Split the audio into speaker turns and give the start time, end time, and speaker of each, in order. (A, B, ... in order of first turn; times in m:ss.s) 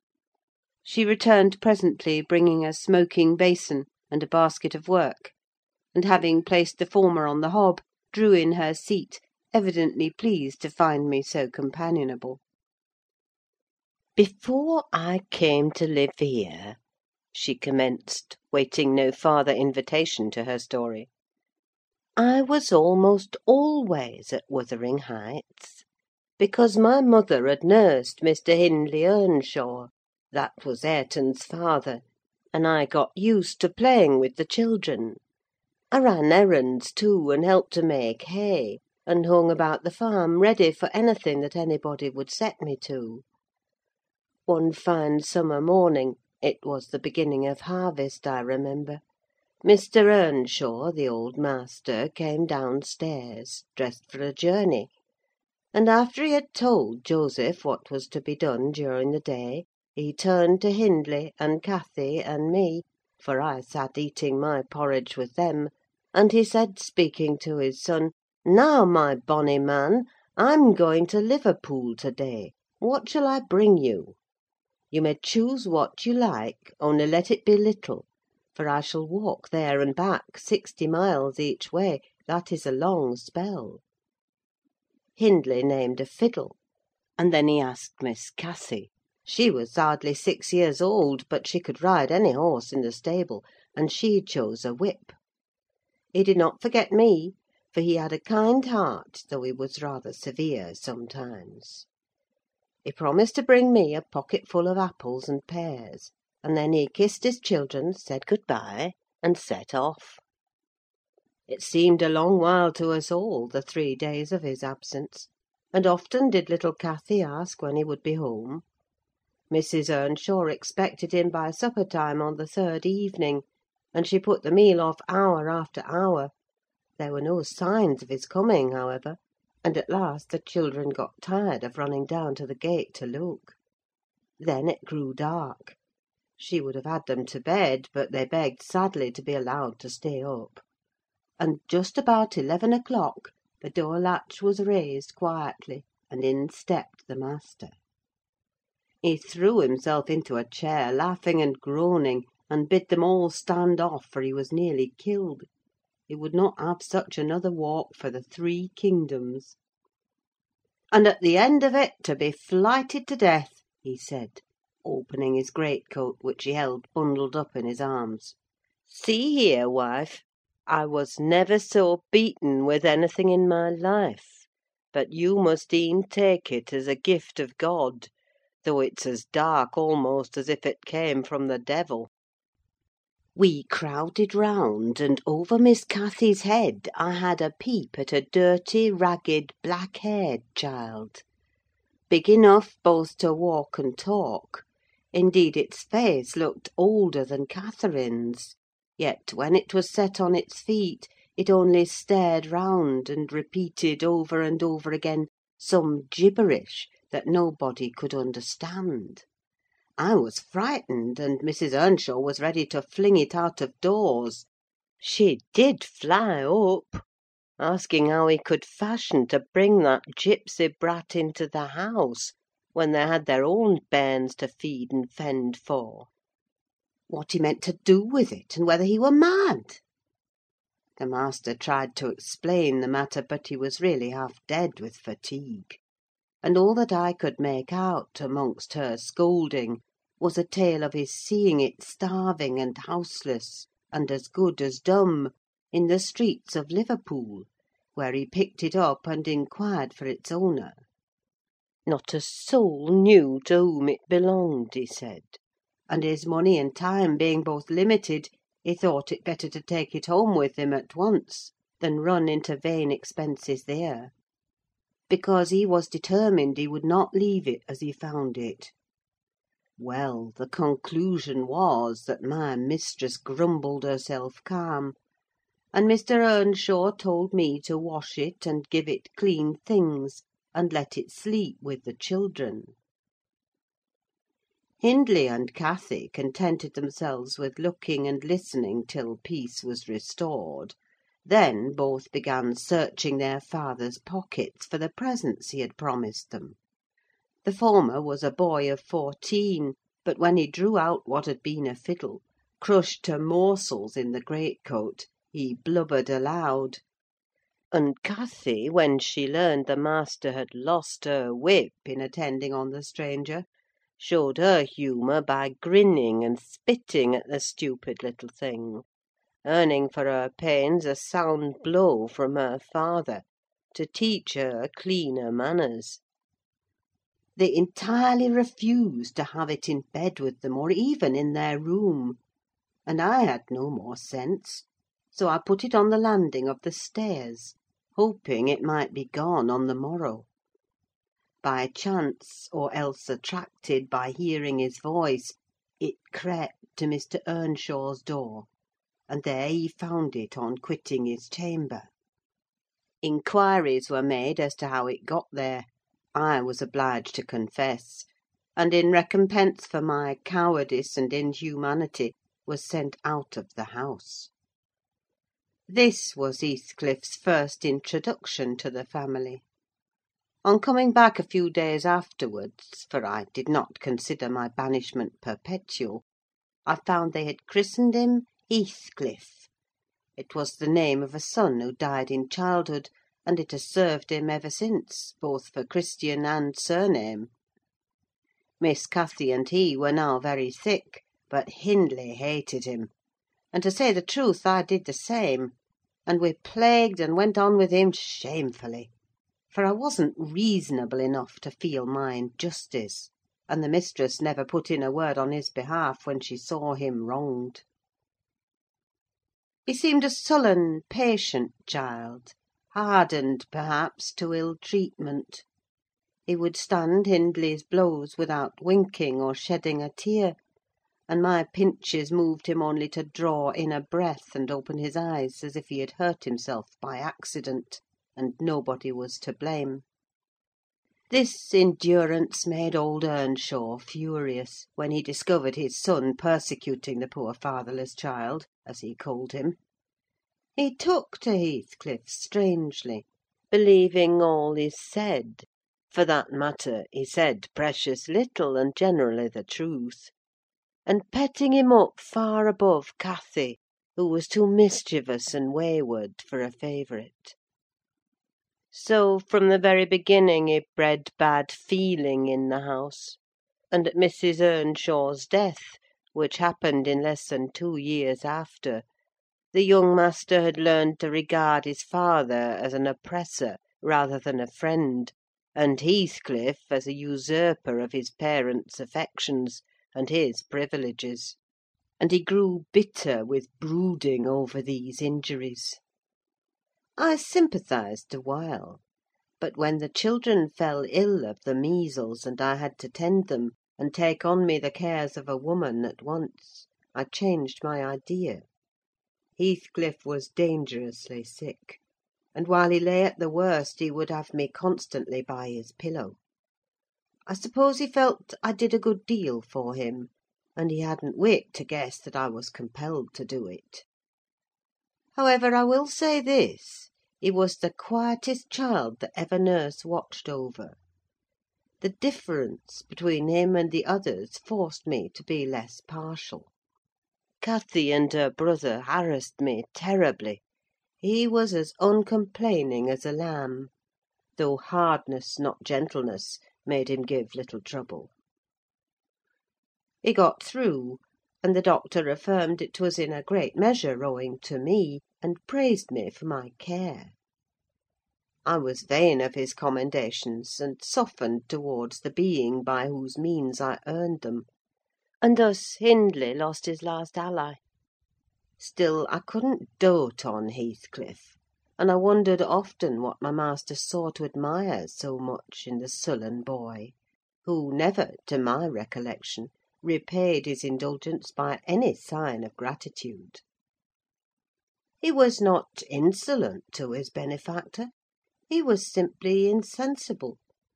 0:00.8-0:05.3 A
0:05.9-0:12.4 A
0:14.2-0:16.8 A
0:17.3-0:21.1 A
0:22.2-0:25.8 A
0:26.4-0:35.2 A
0:35.9-0:43.2 A
0:44.5-0:49.0 A
0:49.6-0:54.9 A
0:55.7-1:14.2 A
1:14.9-1:23.8 A
1:25.2-1:26.6 A
1:27.2-1:35.2 A
1:36.1-1:41.9 A
1:42.8-1:50.2 A
1:51.5-1:58.6 A
1:59.5-2:06.3 A
2:07.0-2:13.6 A
2:14.4-2:15.8 A
2:16.4-2:20.6 A
2:21.4-2:27.8 A
2:29.0-2:35.5 A
2:36.1-2:39.6 A
2:40.9-2:58.1 A
2:58.6-3:02.1 A
3:03.3-3:11.2 A
3:12.1-3:29.2 A
3:30.0-3:34.5 A
3:35.0-3:37.0 A
3:37.6-3:46.1 A
3:47.1-3:49.8 A
3:51.0-3:55.8 A
3:56.4-4:10.8 A
4:11.8-4:24.1 A
4:25.1-4:28.7 A
4:29.8-4:35.0 A
4:35.7-4:42.7 A
4:44.8-4:56.6 A
4:57.4-5:06.8 A
5:07.7-5:13.5 A
5:14.0-5:18.8 A
5:19.4-5:26.0 A
5:27.4-5:32.2 A
5:32.8-5:40.3 A
5:41.4-5:48.5 A
5:49.1-5:51.9 A
5:53.0-6:04.3 A
6:05.7-6:09.4 A
6:10.4-6:16.0 A
6:16.6-6:19.5 A
6:20.2-6:27.3 A
6:28.6-6:32.9 A
6:33.5-6:38.9 A
6:39.5-6:47.6 A
6:49.6-6:55.4 A
6:56.3-7:00.4 A
7:01.1-7:09.8 A
7:11.1-7:19.6 A
7:20.6-7:30.1 A
7:30.8-7:37.4 A
7:38.7-7:43.2 A
7:43.7-7:48.8 A
7:49.5-8:01.4 A
8:02.0-8:05.8 A
8:07.0-8:08.8 A
8:09.4-8:18.4 A
8:19.4-8:21.8 A
8:22.3-8:26.2 A
8:27.3-8:33.8 A
8:35.2-8:40.8 A
8:41.8-8:46.5 A
8:47.4-8:50.4 A
8:51.0-8:53.7 A
8:54.4-8:58.1 A
9:00.0-9:07.2 A
9:08.4-9:14.5 A
9:15.2-9:17.6 A
9:18.6-9:33.4 A
9:35.0-9:37.9 A
9:38.5-9:40.4 A